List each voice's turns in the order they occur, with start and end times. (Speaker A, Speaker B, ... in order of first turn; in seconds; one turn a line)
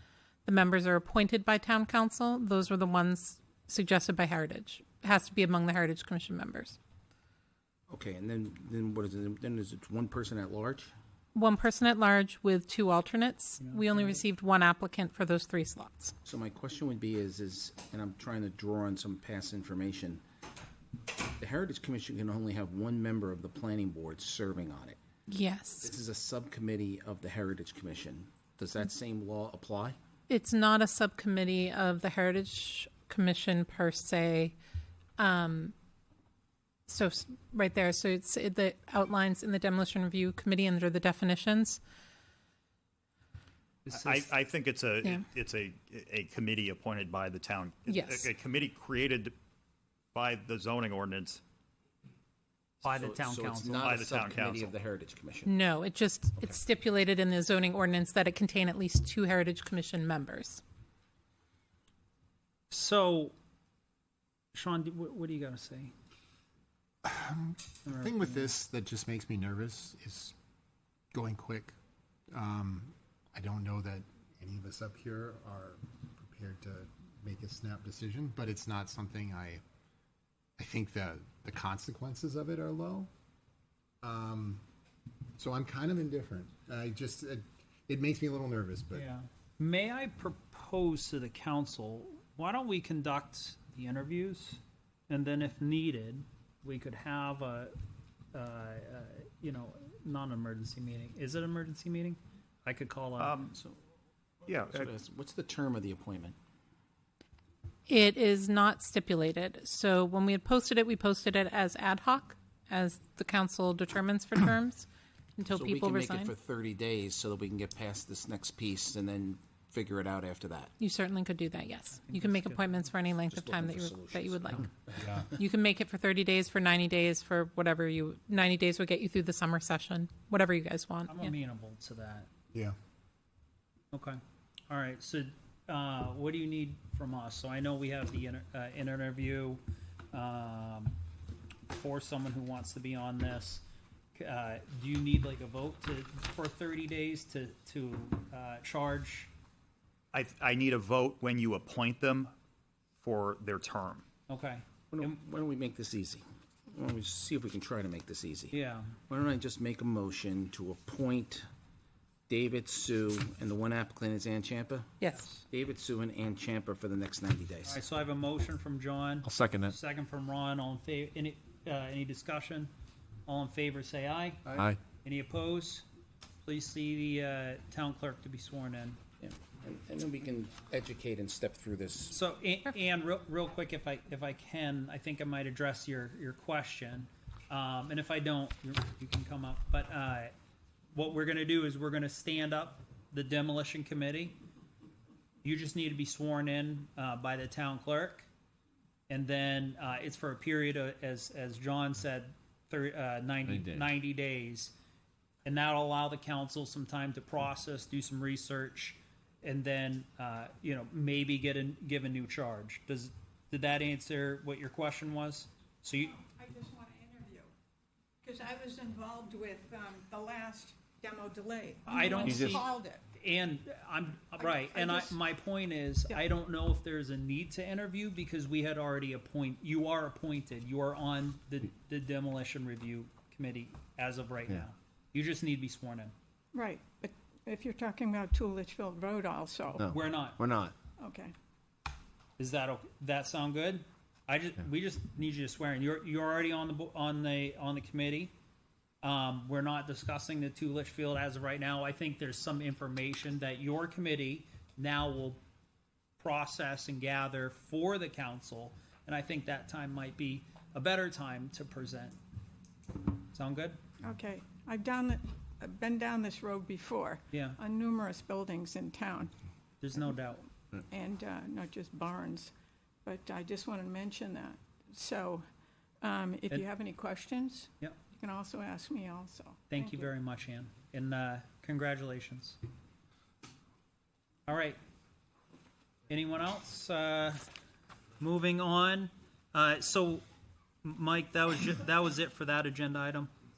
Speaker A: 0.4-6.8
Speaker B: 7.9-10.9
Speaker A: 11.3-16.1
Speaker C: 13.6-14.2
Speaker B: 16.2-20.2
Speaker B: 21.4-25.0
Speaker A: 25.3-25.9
Speaker B: 25.8-30.0
Speaker A: 30.3-34.5
Speaker A: 35.2-35.7
Speaker A: 36.9-41.8
Speaker C: 43.9-44.3
Speaker D: 43.9-49.3
Speaker A: 47.9-48.3
Speaker D: 50.1-51.4
Speaker C: 52.8-53.9
Speaker B: 52.9-55.5
Speaker D: 53.8-54.7
Speaker A: 55.5-60.6
Speaker C: 62.7-63.3
Speaker C: 64.5-65.9
Speaker E: 67.0-70.3
Speaker C: 67.8-68.5
Speaker E: 71.1-71.7
Speaker E: 72.3-79.6
Speaker E: 80.6-83.1
Speaker E: 84.0-84.6
Speaker E: 85.4-89.1
Speaker C: 88.9-97.7
Speaker C: 98.3-103.4
Speaker D: 103.2-103.5
Speaker D: 104.5-104.9
Speaker B: 104.6-106.3
Speaker A: 107.9-116.3
Speaker B: 115.5-120.7
Speaker A: 120.8-124.7
Speaker C: 122.1-122.7
Speaker B: 123.3-125.1
Speaker E: 125.0-125.3
Speaker A: 125.3-131.3
Speaker C: 131.1-132.3
Speaker C: 133.9-134.2
Speaker C: 134.7-141.0
Speaker C: 141.7-143.6
Speaker C: 144.2-149.3
Speaker D: 150.1-152.3
Speaker D: 153.0-154.0
Speaker C: 154.3-155.1
Speaker B: 154.9-161.4
Speaker C: 158.5-158.9
Speaker B: 162.3-165.0
Speaker C: 165.1-165.4
Speaker B: 165.5-167.8
Speaker C: 167.7-172.7
Speaker F: 169.2-169.8
Speaker C: 173.3-174.4
Speaker F: 174.5-174.8
Speaker C: 175.0-175.8
Speaker C: 176.4-179.0
Speaker B: 179.2-182.2
Speaker C: 182.1-190.3
Speaker C: 190.9-194.4
Speaker C: 195.4-198.3
Speaker C: 199.1-204.7
Speaker F: 203.4-203.9
Speaker C: 205.4-216.2
Speaker G: 216.1-217.5
Speaker G: 218.2-223.0
Speaker C: 221.8-236.1
Speaker F: 222.2-222.6
Speaker G: 224.4-225.2
Speaker G: 236.5-239.8
Speaker F: 239.8-240.7
Speaker C: 239.8-240.5
Speaker G: 241.0-241.3
Speaker C: 242.4-248.3
Speaker C: 249.0-255.4
Speaker C: 256.2-262.2
Speaker C: 263.3-263.8
Speaker G: 264.0-269.3
Speaker C: 267.3-267.6
Speaker C: 269.8-270.4
Speaker G: 270.9-272.5
Speaker G: 273.0-275.4
Speaker G: 276.0-280.1
Speaker C: 279.7-282.6
Speaker C: 284.5-284.8
Speaker C: 286.1-287.4
Speaker C: 288.2-290.2
Speaker C: 290.8-293.3